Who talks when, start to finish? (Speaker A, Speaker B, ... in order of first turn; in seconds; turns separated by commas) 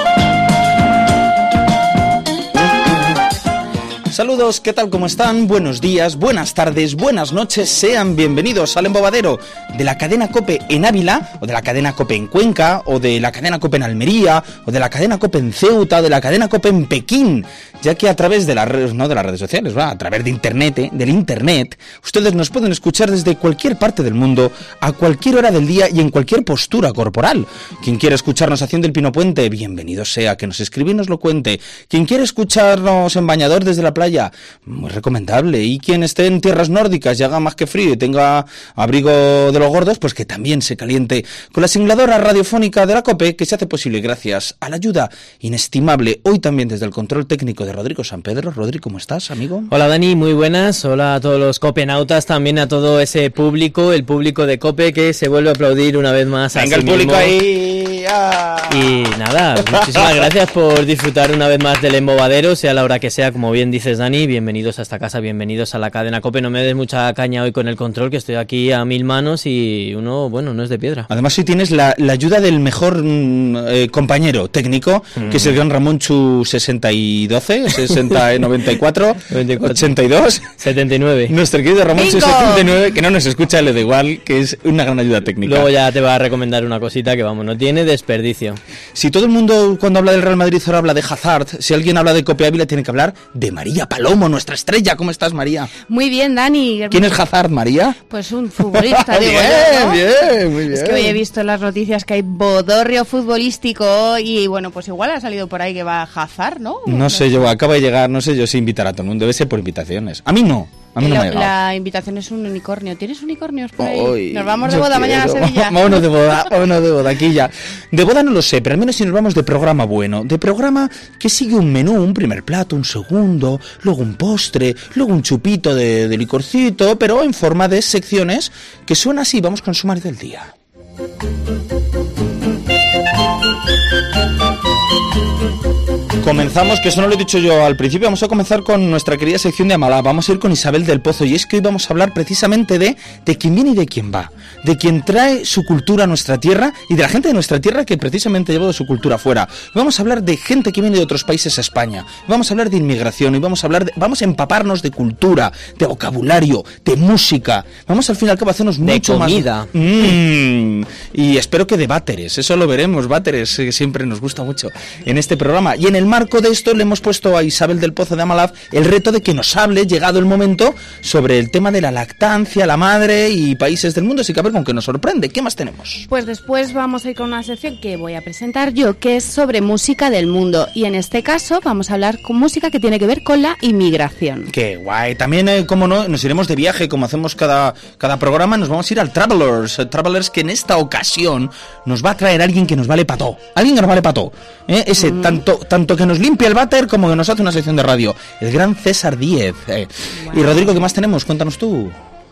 Speaker A: 4.1-49.7, Speaker B: 49.7-57.4, Speaker A: 56.5-59.0, Speaker B: 58.7-71.1, Speaker A: 59.6-60.3, Speaker A: 71.1-80.5, Speaker B: 75.2-75.5, Speaker B: 79.3-80.0, Speaker B: 80.6-81.3, Speaker A: 81.3-85.7, Speaker C: 81.9-82.7, Speaker B: 85.4-88.6, Speaker A: 88.9-95.7, Speaker C: 95.9-97.2, Speaker A: 96.9-98.0, Speaker C: 98.1-100.0, Speaker A: 98.6-101.2, Speaker C: 100.7-107.5, Speaker A: 106.8-111.5, Speaker C: 111.0-116.0, Speaker A: 113.8-130.5, Speaker A: 136.2-176.1, Speaker B: 158.8-159.7, Speaker C: 176.1-184.5, Speaker A: 184.5-202.0, Speaker C: 195.1-195.4, Speaker C: 200.2-200.6